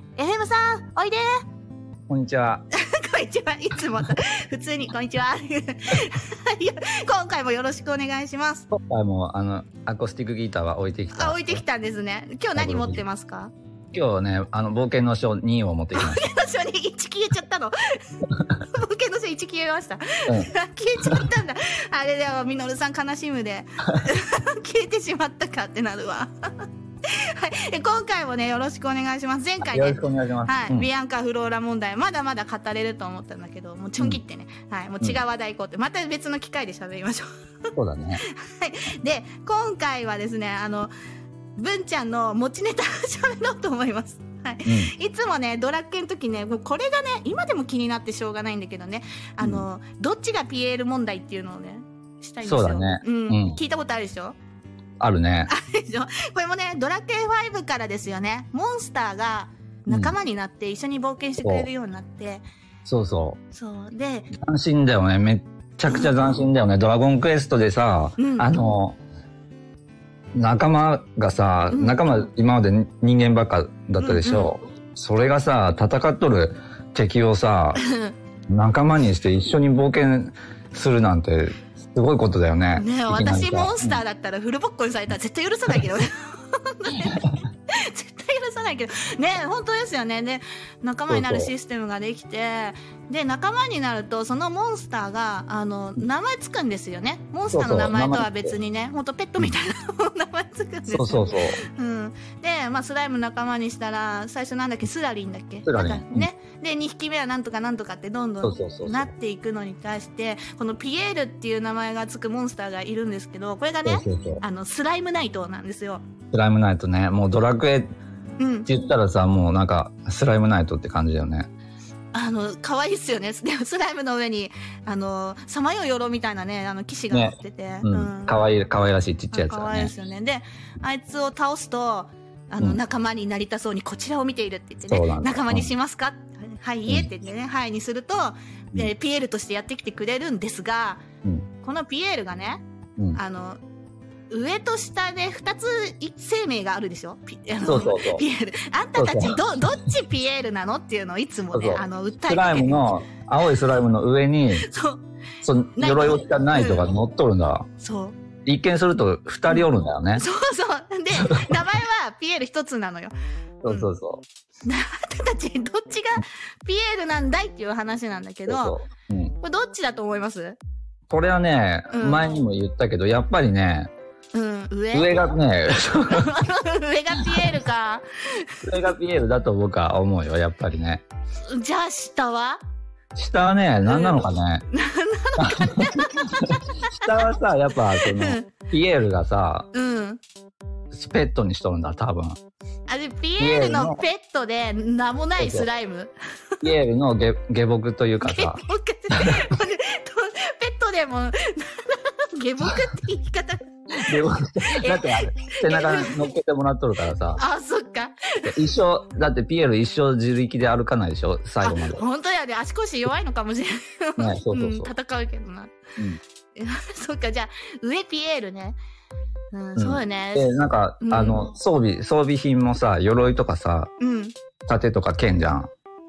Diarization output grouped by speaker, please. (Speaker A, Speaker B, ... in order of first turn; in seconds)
Speaker A: 0.2-1.2, 2.7-8.7, 11.1-13.5, 15.9-37.3, 38.2-40.9, 41.5-54.4, 55.5-62.5, 63.5-64.3, 65.9-66.2, 68.2-68.5, 71.7-72.3, 74.0-74.5, 77.8-78.1, 82.7-116.0, 118.4-118.7, 122.1-128.4, 129.3-141.0, 141.6-142.6, 143.2-143.6, 144.3-153.0, 154.6-155.0, 155.8-156.9, 157.8-158.2, 160.2-163.1, 163.7-163.9, 164.7-168.8, 169.4-170.6, 171.9-172.4, 174.3-175.3, 176.1-178.9, 181.5-182.6, 183.8-187.3, 188.0-188.5, 189.7-190.2, 192.9-196.6, 198.2-206.3, 207.3-208.6, 211.6-215.7, 216.6-218.8, 219.5-221.6, 224.0-224.3
Speaker B: 2.1-2.6, 8.7-11.6, 12.6-13.0, 13.9-16.3, 29.6-30.9, 37.8-38.2, 44.6-44.9, 49.4-49.7, 52.4-53.6, 55.0-55.5, 59.9-60.1, 61.4-61.7, 62.8-63.4, 64.3-69.0, 70.3-77.8, 78.5-84.0, 91.1-91.5, 97.5-98.5, 100.9-101.6, 105.7-106.3, 108.4-109.1, 113.8-114.4, 116.3-117.8, 118.7-121.5, 127.1-129.9, 134.9-135.7, 147.6-148.2, 149.0-149.6, 151.5-154.7, 155.4-157.7, 158.4-160.2, 161.3-161.6, 163.6-164.2, 168.5-169.3, 171.1-173.9, 174.9-176.3, 178.7-181.0, 183.2-184.7, 185.4-189.7, 190.9-192.4, 193.4-194.0, 195.4-195.7, 196.6-198.6, 199.1-199.4, 204.0-207.4, 208.5-212.0, 214.2-214.9, 219.8-223.9, 224.7-225.7